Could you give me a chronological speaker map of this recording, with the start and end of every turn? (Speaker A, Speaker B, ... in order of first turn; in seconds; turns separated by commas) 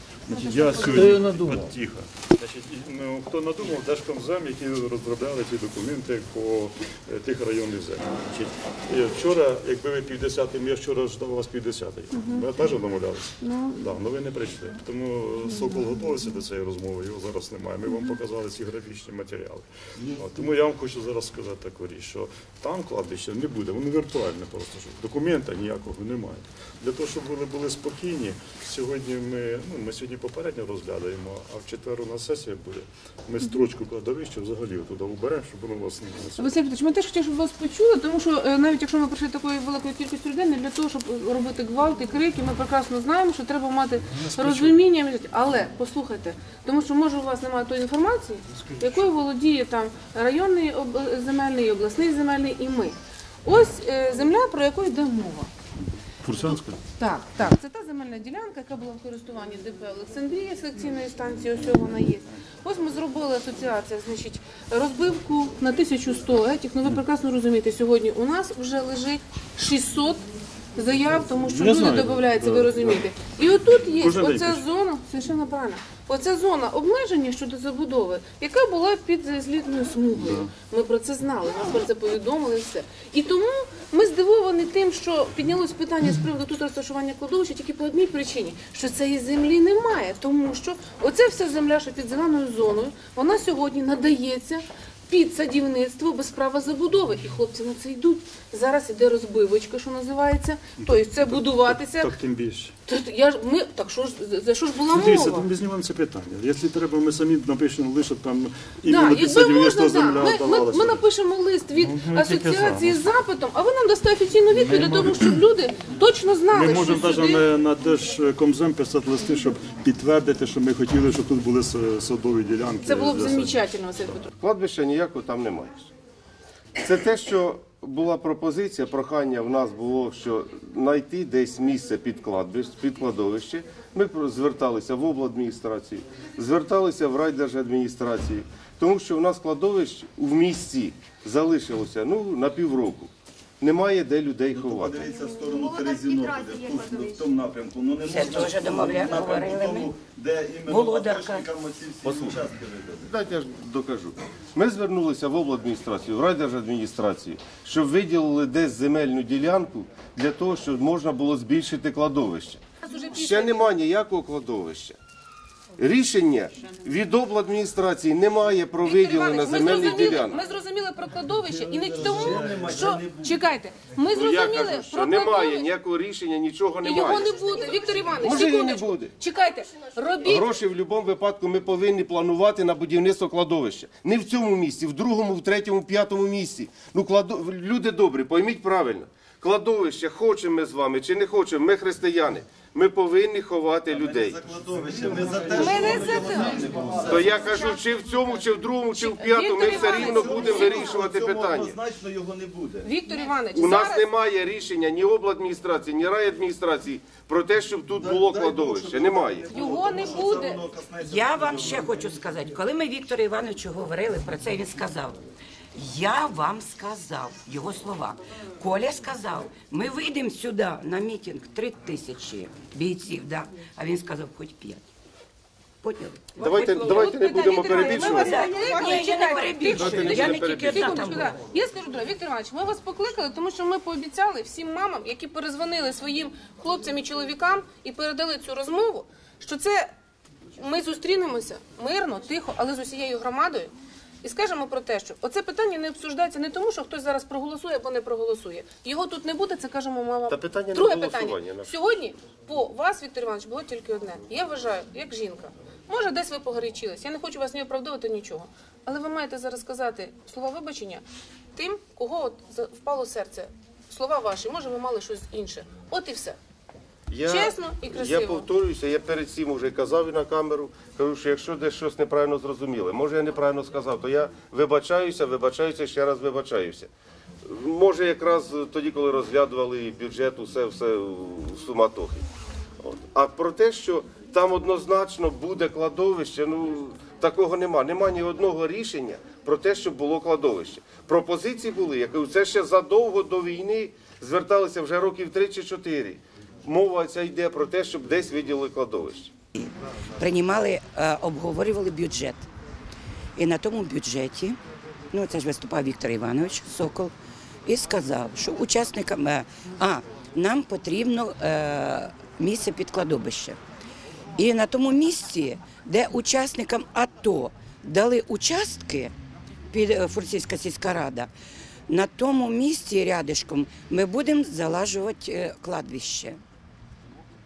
Speaker A: 0.3-36.5, Speaker B: 12.1-12.5, Speaker B: 13.4-13.8, Speaker B: 15.5-16.0, Speaker B: 17.9-18.1, Speaker B: 36.4-55.5, Speaker A: 44.2-44.7, Speaker A: 56.2-56.8, Speaker B: 57.0-102.1, Speaker A: 71.5-73.0, Speaker A: 74.0-74.6, Speaker A: 80.2-80.5, Speaker A: 100.8-102.8, Speaker B: 102.9-105.5, Speaker A: 104.9-111.0, Speaker B: 108.8-117.5, Speaker A: 111.8-113.1, Speaker A: 114.5-115.4, Speaker A: 116.5-123.6, Speaker B: 122.8-124.3, Speaker C: 124.4-125.9, Speaker C: 126.8-145.1, Speaker D: 144.5-153.1, Speaker E: 148.1-149.9, Speaker E: 150.7-151.5, Speaker C: 152.1-152.4, Speaker C: 153.1-162.6, Speaker B: 162.8-163.7, Speaker C: 163.2-165.0, Speaker C: 165.8-170.4, Speaker B: 168.8-175.7, Speaker D: 171.7-173.4, Speaker C: 174.1-177.3, Speaker B: 176.8-180.5, Speaker C: 178.2-179.1, Speaker C: 180.2-194.4, Speaker D: 193.9-197.6, Speaker B: 195.6-196.7, Speaker C: 195.6-196.4, Speaker C: 197.0-201.8, Speaker B: 197.4-197.8, Speaker B: 199.0-201.0, Speaker D: 199.6-202.9, Speaker B: 202.8-204.1, Speaker C: 203.5-209.5, Speaker D: 207.9-212.2, Speaker B: 209.5-210.6, Speaker E: 211.0-215.2, Speaker E: 215.8-224.8, Speaker E: 225.8-231.4, Speaker C: 226.4-228.5, Speaker B: 226.6-239.9, Speaker C: 229.7-231.2, Speaker B: 240.6-266.4, Speaker C: 250.3-251.7, Speaker C: 267.1-276.9, Speaker B: 267.3-268.5, Speaker C: 277.4-282.2, Speaker C: 282.8-299.3, Speaker E: 299.6-302.5, Speaker E: 303.4-304.6, Speaker E: 305.1-307.1, Speaker E: 307.7-313.6, Speaker E: 314.4-319.1, Speaker E: 319.7-321.3, Speaker E: 321.9-326.4